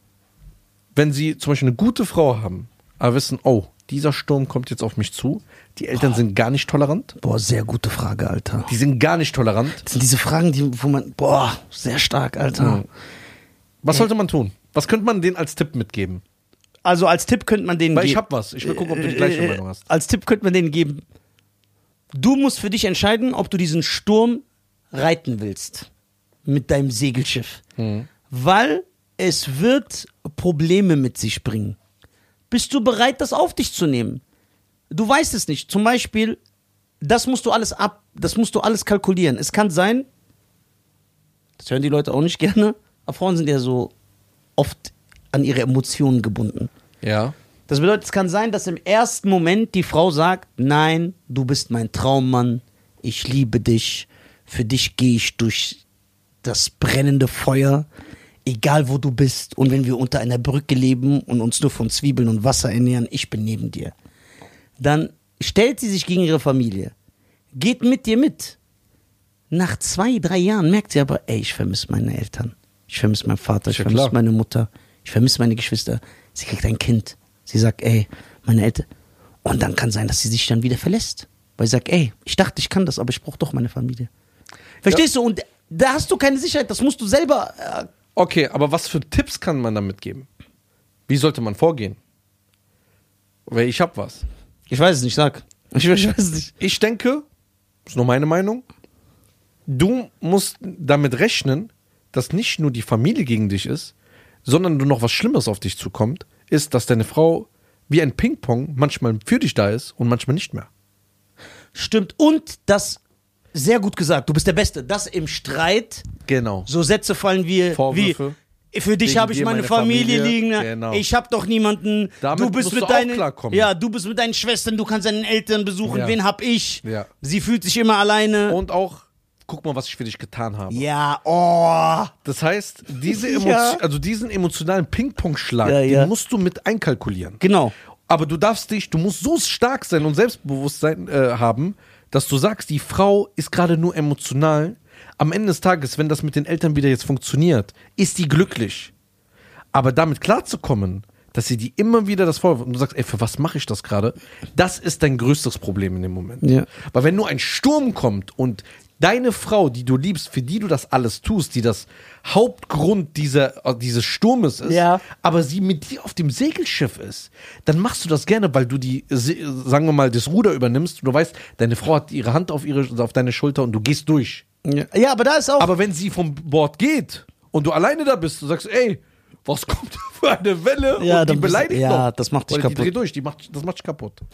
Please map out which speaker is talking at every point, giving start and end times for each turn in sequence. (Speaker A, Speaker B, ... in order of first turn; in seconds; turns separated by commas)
Speaker A: 0.9-7.2, Speaker B: 7.2-8.7, Speaker A: 8.7-9.8, Speaker B: 9.8-12.8, Speaker A: 12.6-12.9, Speaker A: 13.8-16.2, Speaker B: 16.8-21.0, Speaker A: 17.9-19.9, Speaker B: 22.1-25.9, Speaker B: 26.4-27.6, Speaker A: 27.8-28.1, Speaker B: 28.3-31.8, Speaker B: 32.5-34.2, Speaker B: 34.9-36.4, Speaker B: 37.0-40.1, Speaker B: 41.6-43.9, Speaker B: 44.6-46.7, Speaker A: 47.0-47.4, Speaker B: 47.7-55.8, Speaker B: 56.4-57.9, Speaker B: 58.5-63.9, Speaker B: 64.8-66.9, Speaker B: 67.5-68.6, Speaker B: 69.5-78.9, Speaker A: 73.7-74.2, Speaker B: 79.4-84.1, Speaker B: 84.8-87.9, Speaker A: 88.2-90.3, Speaker A: 91.1-92.0, Speaker A: 93.5-94.2, Speaker B: 94.7-96.5, Speaker A: 96.6-97.2, Speaker A: 97.9-98.6, Speaker A: 99.7-103.9, Speaker A: 104.5-110.7, Speaker B: 111.7-113.0, Speaker B: 113.5-116.1, Speaker A: 116.3-116.7, Speaker B: 116.7-118.2, Speaker A: 117.7-118.4, Speaker B: 118.7-128.6, Speaker A: 119.0-121.0, Speaker A: 122.2-123.7, Speaker A: 125.9-126.2, Speaker A: 126.8-127.1, Speaker A: 128.5-130.8, Speaker B: 130.7-132.1, Speaker A: 132.2-137.4, Speaker B: 133.1-133.8, Speaker B: 135.6-136.1, Speaker B: 137.4-137.7, Speaker A: 138.1-148.9, Speaker A: 149.7-174.4, Speaker B: 156.4-156.7, Speaker B: 164.7-165.0, Speaker B: 174.6-175.7, Speaker A: 175.6-184.2, Speaker B: 181.0-182.9